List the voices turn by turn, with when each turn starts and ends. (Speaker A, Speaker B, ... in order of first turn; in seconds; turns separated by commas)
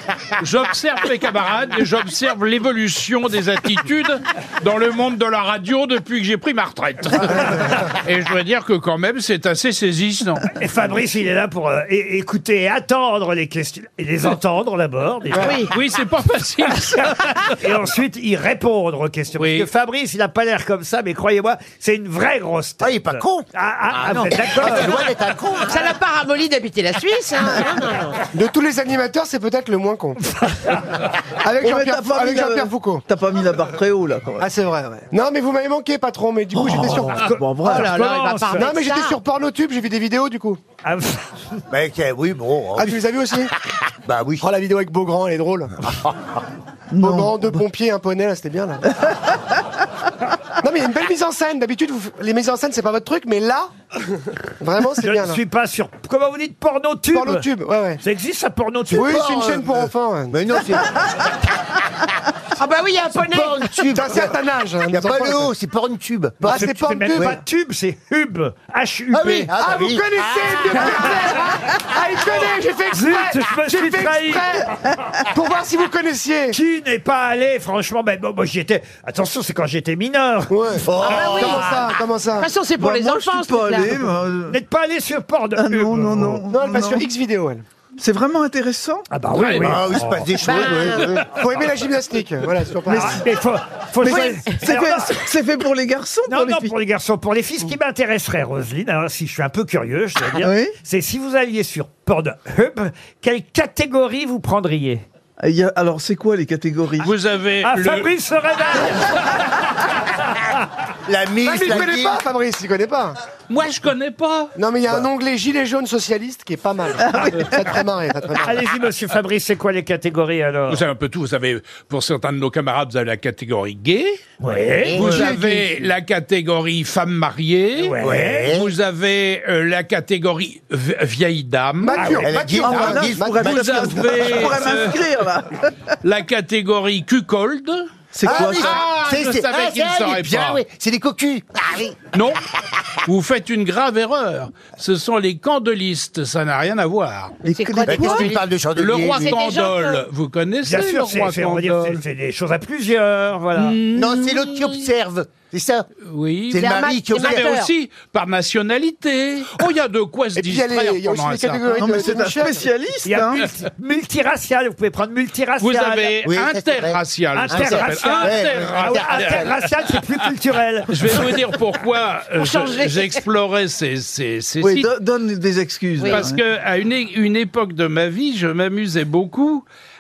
Speaker A: 0.4-10.5, Speaker B: 10.6-15.6, Speaker C: 15.3-15.6, Speaker D: 15.3-15.8, Speaker A: 15.7-17.6, Speaker B: 17.1-25.0, Speaker A: 19.4-19.7, Speaker E: 22.8-26.0, Speaker D: 25.7-28.3, Speaker C: 28.3-30.2, Speaker B: 30.2-30.9, Speaker C: 31.4-33.0, Speaker F: 31.6-34.5, Speaker C: 34.4-37.3, Speaker B: 36.6-38.7, Speaker F: 37.2-37.9, Speaker D: 37.6-39.2, Speaker C: 38.5-40.6, Speaker B: 40.8-41.6, Speaker E: 41.7-43.0, Speaker C: 42.8-43.5, Speaker E: 44.1-44.5, Speaker C: 44.4-45.8, Speaker F: 46.9-47.5, Speaker C: 47.0-49.1, Speaker C: 50.6-55.4, Speaker B: 55.0-57.5, Speaker C: 57.1-58.0, Speaker B: 58.0-59.2, Speaker C: 58.9-60.4, Speaker E: 59.0-61.0, Speaker D: 62.6-63.8, Speaker E: 63.1-64.3, Speaker C: 63.8-65.5, Speaker E: 64.9-67.4, Speaker C: 66.4-67.4, Speaker B: 66.5-69.5, Speaker E: 69.1-71.3, Speaker C: 69.6-74.7, Speaker B: 72.9-74.7, Speaker C: 75.3-76.6, Speaker B: 76.5-81.5, Speaker C: 80.5-82.5, Speaker E: 80.8-81.7, Speaker D: 81.1-84.0, Speaker F: 82.8-84.6, Speaker B: 84.5-86.5, Speaker F: 85.6-87.1, Speaker C: 86.5-87.7, Speaker F: 88.0-89.1, Speaker B: 89.1-90.3, Speaker A: 89.3-89.9, Speaker E: 89.6-91.3, Speaker D: 90.4-91.2, Speaker A: 90.9-91.2, Speaker C: 91.2-93.2, Speaker B: 92.9-95.2, Speaker F: 94.0-96.7, Speaker D: 94.0-94.5, Speaker B: 96.3-105.0, Speaker F: 100.4-100.7, Speaker F: 105.4-107.1, Speaker A: 107.0-108.1, Speaker B: 107.6-109.5, Speaker E: 111.1-112.2, Speaker C: 111.4-113.2, Speaker A: 113.5-114.5, Speaker C: 114.6-118.7, Speaker F: 117.0-117.4, Speaker B: 118.4-120.8, Speaker A: 120.7-124.2, Speaker B: 124.4-125.3, Speaker E: 124.8-125.4, Speaker A: 124.9-132.1, Speaker B: 127.8-128.5, Speaker E: 128.0-128.7, Speaker C: 131.8-134.4, Speaker B: 132.0-132.7, Speaker E: 132.2-133.4, Speaker F: 132.6-135.9, Speaker A: 133.4-135.0, Speaker A: 136.0-140.6, Speaker F: 138.1-138.8, Speaker E: 138.2-142.0, Speaker A: 142.1-142.4, Speaker A: 143.1-147.4, Speaker E: 147.4-149.4, Speaker D: 147.5-148.4, Speaker A: 148.0-152.0, Speaker D: 149.2-150.1, Speaker B: 150.6-153.8, Speaker A: 153.6-154.9, Speaker E: 153.9-155.9, Speaker A: 156.1-161.7, Speaker E: 156.5-157.6, Speaker D: 156.5-157.7, Speaker C: 160.3-162.7, Speaker F: 161.7-163.4, Speaker B: 163.0-166.2, Speaker A: 165.6-169.6, Speaker E: 166.2-169.6, Speaker B: 167.3-171.2, Speaker A: 170.9-174.9, Speaker D: 172.4-173.2, Speaker F: 174.6-176.4, Speaker D: 176.0-176.3, Speaker A: 176.1-179.7